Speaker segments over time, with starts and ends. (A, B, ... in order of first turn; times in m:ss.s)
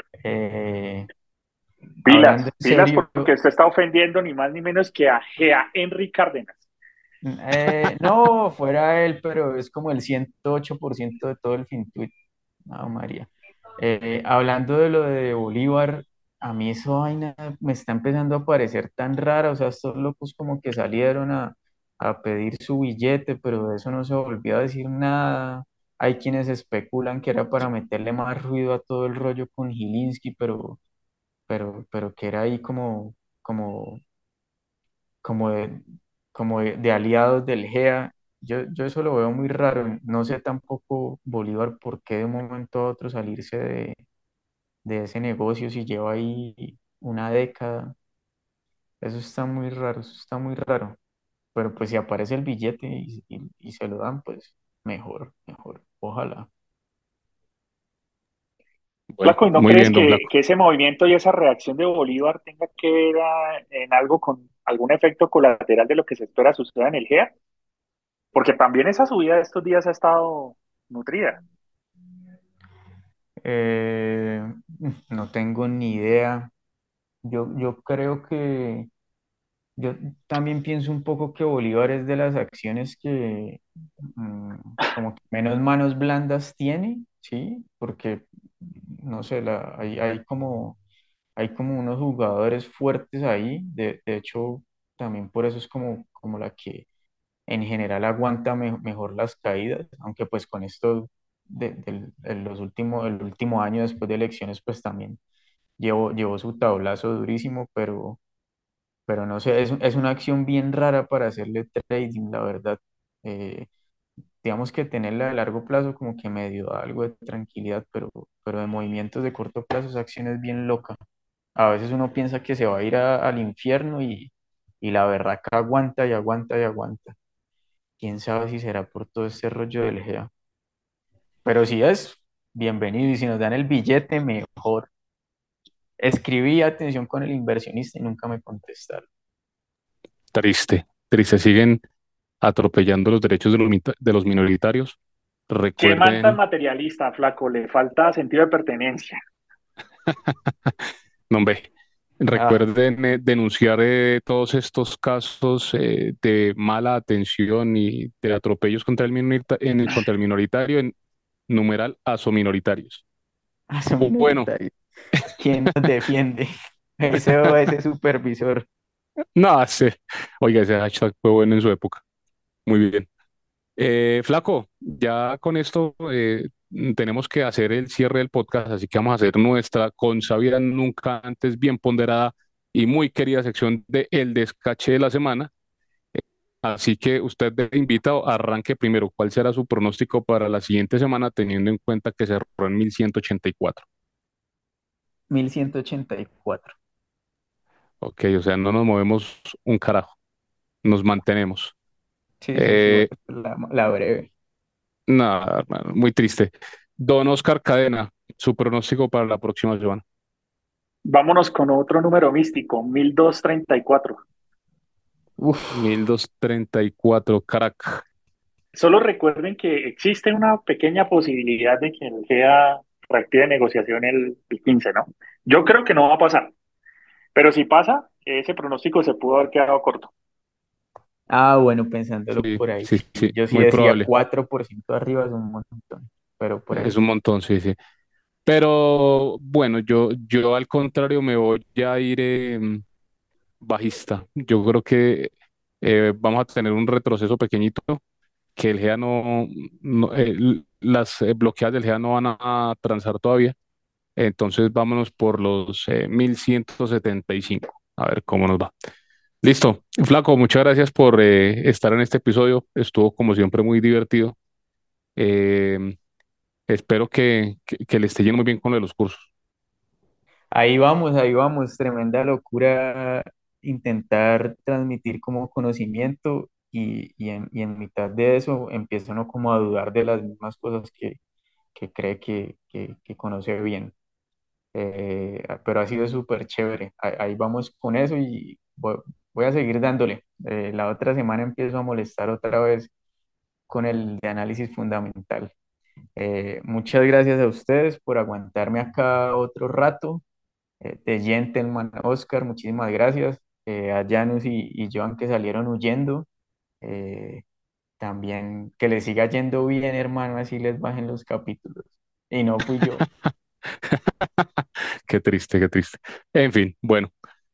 0:00.2-0:01.1 A
0:02.0-0:03.3 A
0:02.0-0:06.6 B
0:07.2-0:12.1 A
0:12.7-0:30.8 A
0:31.5-0:34.0 A
0:35.2-0:44.0 A
0:44.8-0:48.0 A
0:49.0-0:51.0 A
0:51.6-0:56.5 A
0:59.1-1:00.3 C
0:59.2-1:07.3 B
1:08.3-1:11.4 B
1:13.4-1:16.5 A
1:17.2-1:18.9 A
1:19.8-1:30.8 A
1:31.4-1:36.9 A
1:37.5-1:45.2 A
1:45.8-1:48.2 A
1:49.1-1:53.7 A
1:54.4-2:01.0 A
2:01.6-2:07.2 A
2:08.0-2:10.3 A
2:11.4-2:14.9 A
2:16.0-2:19.1 A
2:20.3-2:21.8 C
2:22.4-2:25.0 C
2:25.5-2:26.4 C
2:25.8-2:29.2 B
2:30.1-2:30.7 C
2:31.3-2:31.7 C
2:32.2-2:40.9 C
2:32.3-2:32.6 A
2:41.5-2:43.0 C
2:43.7-2:44.7 A
2:44.0-2:44.5 C
2:45.4-2:48.6 A
2:49.4-2:52.0 C
2:52.6-2:53.1 C
2:53.8-3:05.5 C
3:06.1-3:13.8 C
3:15.3-3:16.7 A
3:18.0-3:20.2 C
3:20.8-3:21.7 C
3:22.4-3:24.3 A
3:22.6-3:23.1 C
3:25.1-3:30.0 C
3:31.0-3:34.2 B
3:35.4-3:35.7 A
3:35.7-3:38.0 C
3:38.7-3:46.5 B
3:47.3-3:50.1 B
3:51.3-3:56.9 A
3:52.4-3:54.1 C
3:56.7-3:57.8 C
3:58.4-4:02.8 C
4:03.6-4:08.0 C
4:08.6-4:13.6 C
4:14.2-4:18.7 C
4:19.4-4:24.4 C
4:25.2-4:26.0 C
4:26.7-4:29.3 C
4:30.5-4:41.2 A
4:41.7-4:43.9 A
4:44.7-4:52.9 A
4:53.7-4:55.5 A
4:56.2-5:00.2 A
5:00.8-5:06.3 A
5:06.8-5:07.4 A
5:08.0-5:13.0 A
5:13.8-5:14.5 C
5:15.0-5:17.1 C